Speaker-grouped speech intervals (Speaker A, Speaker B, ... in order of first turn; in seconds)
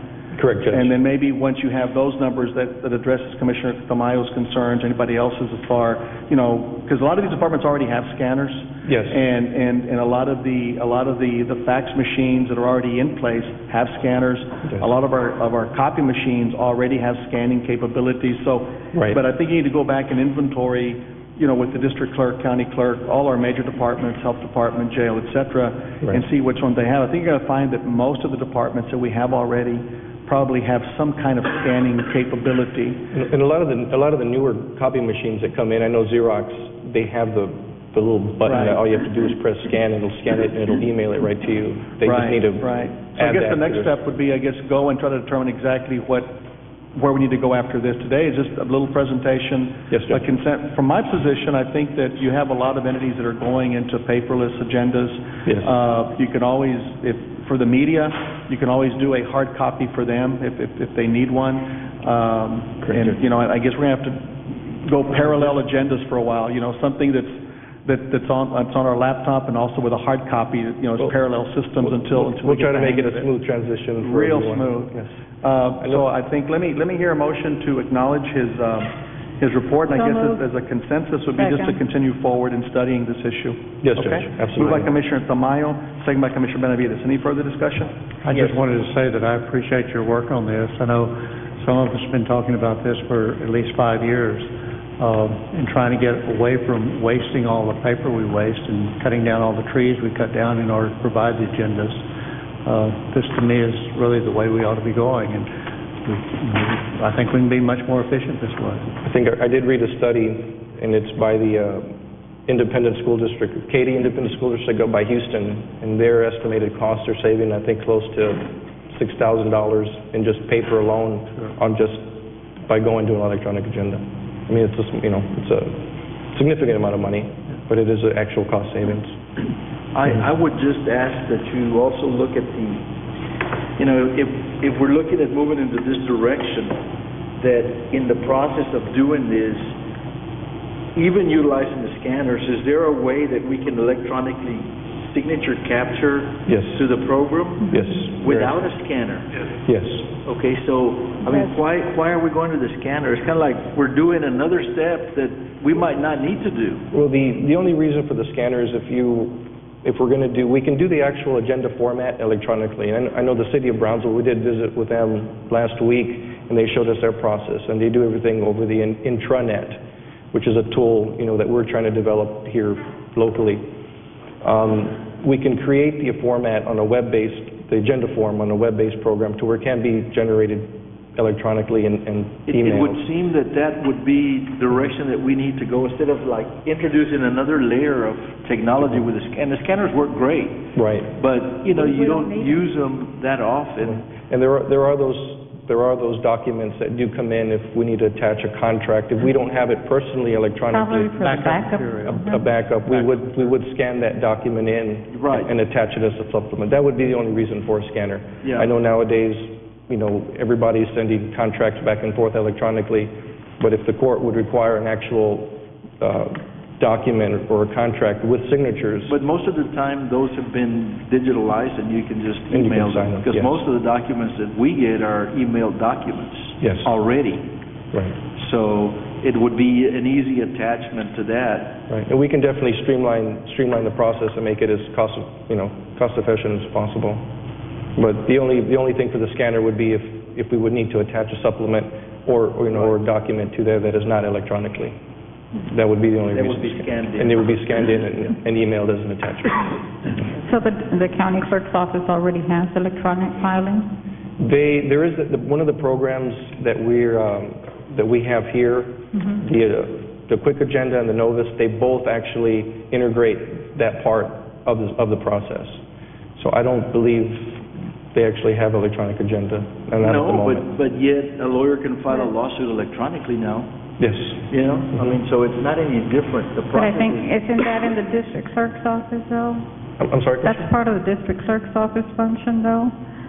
Speaker A: 0.3-0.9, 8.8-9.2, 18.9-19.2, 33.1-43.9, 49.9-50.2, 55.5-55.7, 62.9-63.1, 71.8-75.1, 83.8-84.9, 109.0-111.9, 112.5-129.2, 146.5-146.9, 147.7-148.6, 149.7-150.1, 156.9-169.8, 170.3-173.7, 174.4-183.0, 190.8-191.1, 193.8-201.2, 201.9-219.2, 222.5-223.6, 226.6-226.9, 227.9-228.2, 231.9-237.2, 238.0-245.0, 245.7-249.7, 254.4-265.8, 266.4-270.7, 274.0-274.5, 280.0-280.7
Speaker B: 0.7-33.0, 38.5-38.8, 42.0-46.4, 46.9-73.3, 74.0-87.9
Speaker C: 79.9-80.4, 81.4-81.8, 191.8-192.6, 200.7-202.4, 250.4-253.9, 276.7-279.6, 280.4-282.9
Speaker D: 88.2-102.0, 102.7-105.5, 106.0-108.9, 201.1-203.5
Speaker E: 129.9-132.9, 133.8-136.8, 137.4-139.8, 140.9-149.4, 150.2-156.8, 182.5-194.1, 205.1-205.5, 208.4-208.7, 219.1-227.5, 228.4-231.8, 246.3-247.7, 270.0-273.7, 274.5-277.3